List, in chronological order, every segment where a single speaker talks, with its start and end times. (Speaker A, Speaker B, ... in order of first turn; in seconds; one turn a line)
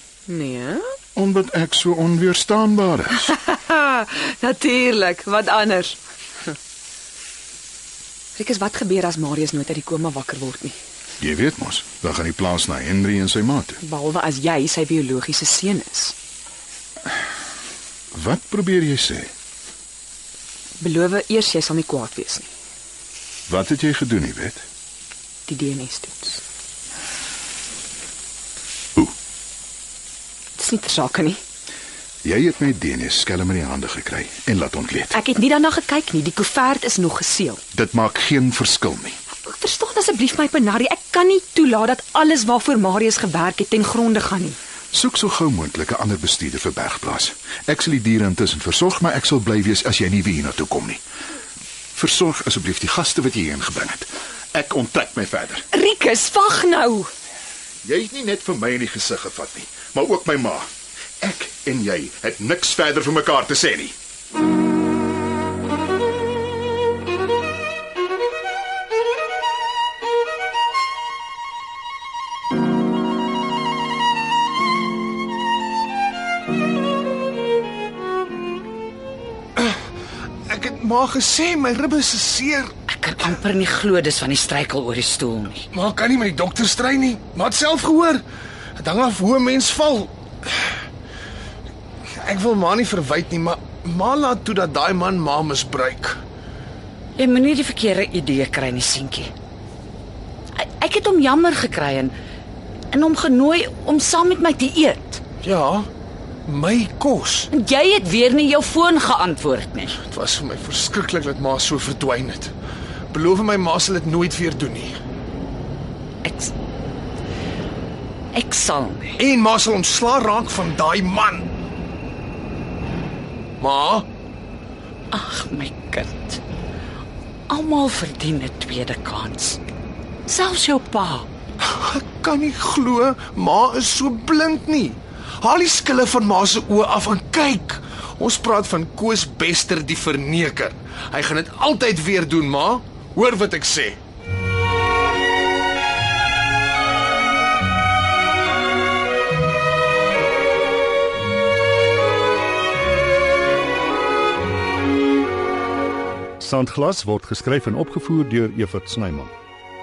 Speaker A: 0.3-0.9
Speaker B: 1.1-3.3
Speaker A: 3.3-6.0
Speaker A: 8.3-10.8
Speaker B: 11.2-13.8
Speaker A: 13.8-16.1
Speaker B: 18.1-19.3
Speaker A: 20.8-22.5
Speaker B: 23.5-24.6
Speaker A: 25.4-26.4
Speaker A: 30.6-31.4
Speaker B: 32.2-35.2
Speaker A: 35.1-37.6
Speaker B: 37.7-39.2
Speaker A: 39.4-44.6
Speaker B: 44.9-51.0
Speaker B: 51.9-55.6
Speaker A: 55.7-57.1
Speaker B: 57.8-60.7
Speaker B: 61.2-63.9
Speaker C: 80.5-82.7
Speaker D: 82.9-85.6
Speaker C: 85.7-88.2
Speaker C: 88.8-90.1
Speaker C: 92.2-96.2
Speaker D: 97.2-99.3
Speaker D: 100.6-102.1
Speaker D: 102.9-105.2
Speaker C: 105.4-105.9
Speaker C: 106.5-107.5
Speaker D: 107.5-110.0
Speaker C: 110.0-112.5
Speaker C: 113.1-115.0
Speaker D: 116.2-116.5
Speaker D: 118.3-119.2
Speaker C: 119.2-121.5
Speaker C: 123.6-124.1
Speaker D: 125.1-126.4
Speaker D: 127.5-129.6
Speaker D: 130.3-131.3
Speaker C: 131.6-144.0
Speaker E: 156.4-159.3